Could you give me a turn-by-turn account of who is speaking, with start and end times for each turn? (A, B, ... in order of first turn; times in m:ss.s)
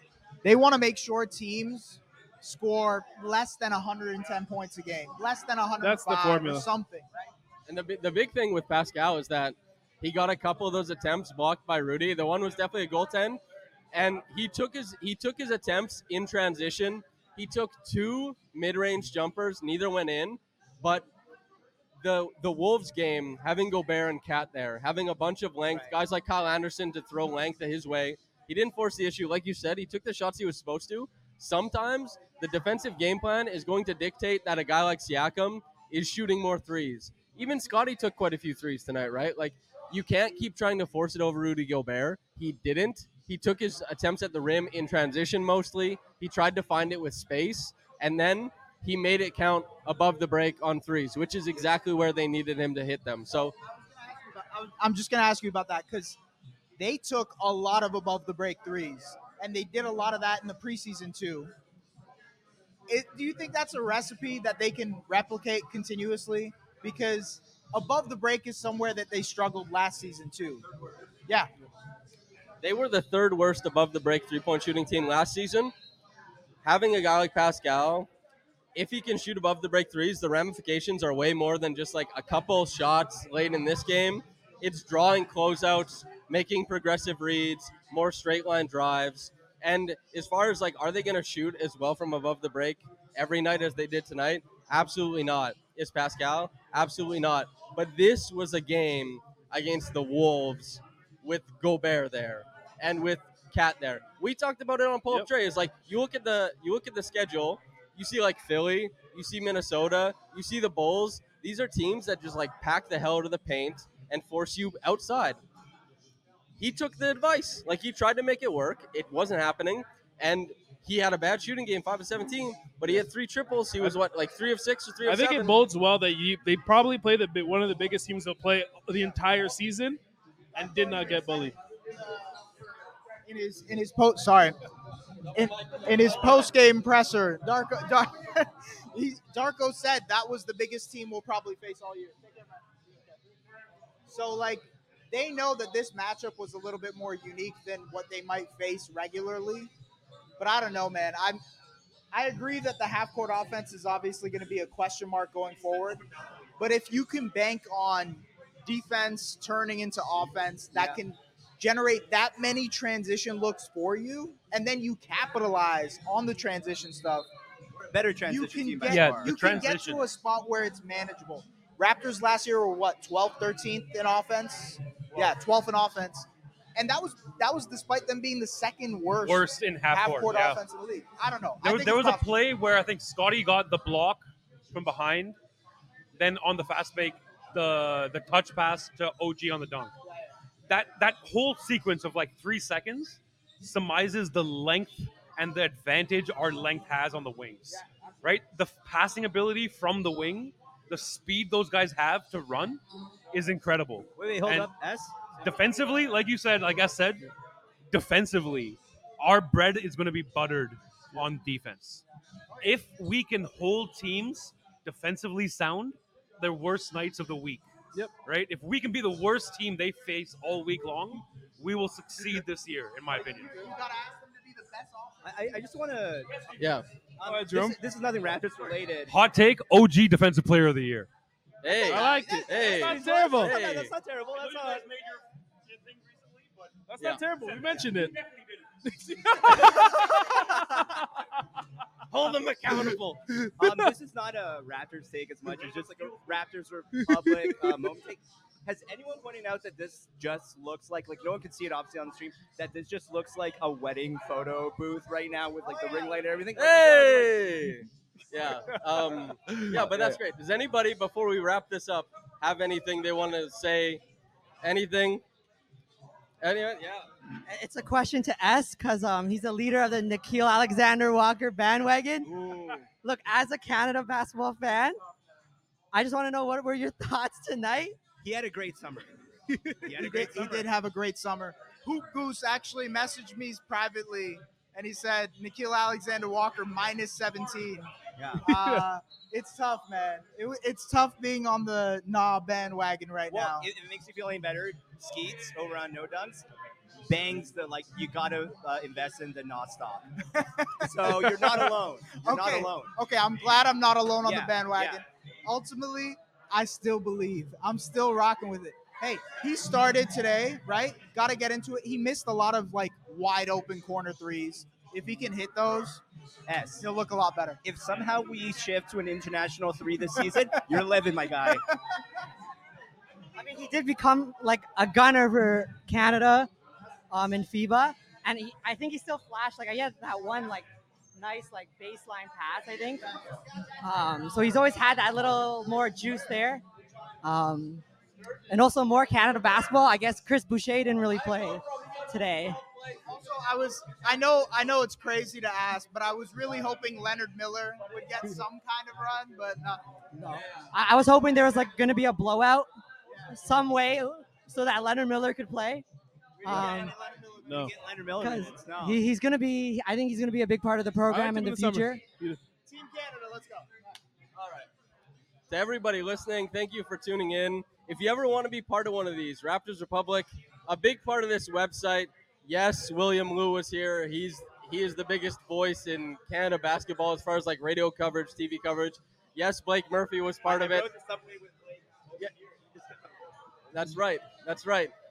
0:00.4-0:07.3 A
0:05.8-0:06.7 B
0:07.7-0:13.4 C
0:13.9-0:21.1 C
0:22.0-0:53.5 C
0:25.7-0:25.9 D
0:53.9-0:56.2 A
0:56.8-1:01.5 A
1:02.9-1:10.7 A
1:12.6-1:15.7 C
1:16.6-1:18.1 C
1:18.7-1:55.4 C
1:56.6-2:05.6 C
2:05.0-2:10.0 B
2:10.5-2:11.6 B
2:13.2-2:14.6 A
2:15.3-2:22.5 A
2:15.3-2:16.4 C
2:24.1-2:29.7 A
2:30.4-2:31.4 A
2:32.1-2:36.0 A
2:36.6-2:47.3 A
2:40.7-2:41.0 D
2:47.9-2:49.3 D
2:48.3-3:02.3 A
2:48.8-2:50.0 E
2:59.2-3:00.6 E
3:01.6-3:05.4 E
3:06.1-3:09.9 E
3:10.7-3:24.7 E
3:24.2-3:25.3 D
3:25.3-3:27.3 E
3:27.9-3:32.0 E
3:32.6-3:37.6 E
3:38.2-3:43.6 E
3:43.1-3:45.6 A
3:45.2-3:49.1 D
3:46.6-3:46.8 C
3:47.2-3:47.8 B
3:49.1-3:51.1 E
3:51.6-3:53.9 C
3:51.9-3:53.5 B
3:51.9-3:52.6 A
3:51.9-3:54.8 D
3:54.3-3:56.8 E
3:56.9-3:58.1 B
3:57.4-3:58.7 E
3:58.8-4:00.8 B
4:02.1-4:03.2 C
4:02.8-4:03.9 B
4:03.6-4:17.5 D
4:05.6-4:06.3 E
4:07.0-4:07.8 B
4:16.5-4:24.0 C
4:19.5-4:20.1 B
4:24.6-4:25.2 C
4:26.4-4:27.1 C
4:27.4-4:32.3 F
4:32.3-4:32.8 D
4:33.0-4:35.0 F
4:35.9-4:38.0 F
4:38.2-4:39.1 D
4:39.5-4:40.1 B
4:39.8-4:40.7 D
4:39.9-4:47.9 A
4:48.2-4:48.5 D
4:48.4-4:53.7 A
4:48.5-4:48.8 B
4:53.3-4:56.5 D
4:57.0-5:00.1 D
5:00.4-5:16.0 A
5:00.8-5:02.9 D
5:04.2-5:05.0 D
5:16.5-5:16.8 D
5:16.8-5:17.6 A
5:17.6-5:21.6 D
5:23.4-5:26.5 F
5:27.1-5:33.2 F
5:33.8-5:36.6 F
5:37.2-5:37.8 F
5:38.5-5:42.6 F
5:42.9-5:50.0 A
5:50.1-5:52.7 F
5:53.3-5:55.8 F
5:56.4-5:59.0 D
5:56.4-5:56.9 F
5:56.8-5:57.5 A
5:57.4-5:57.7 B
5:58.2-6:02.0 F
6:01.1-6:02.4 B
6:02.6-6:03.7 A
6:04.4-6:04.6 C
6:05.5-6:20.9 C
6:20.4-6:23.1 D
6:23.7-6:24.9 C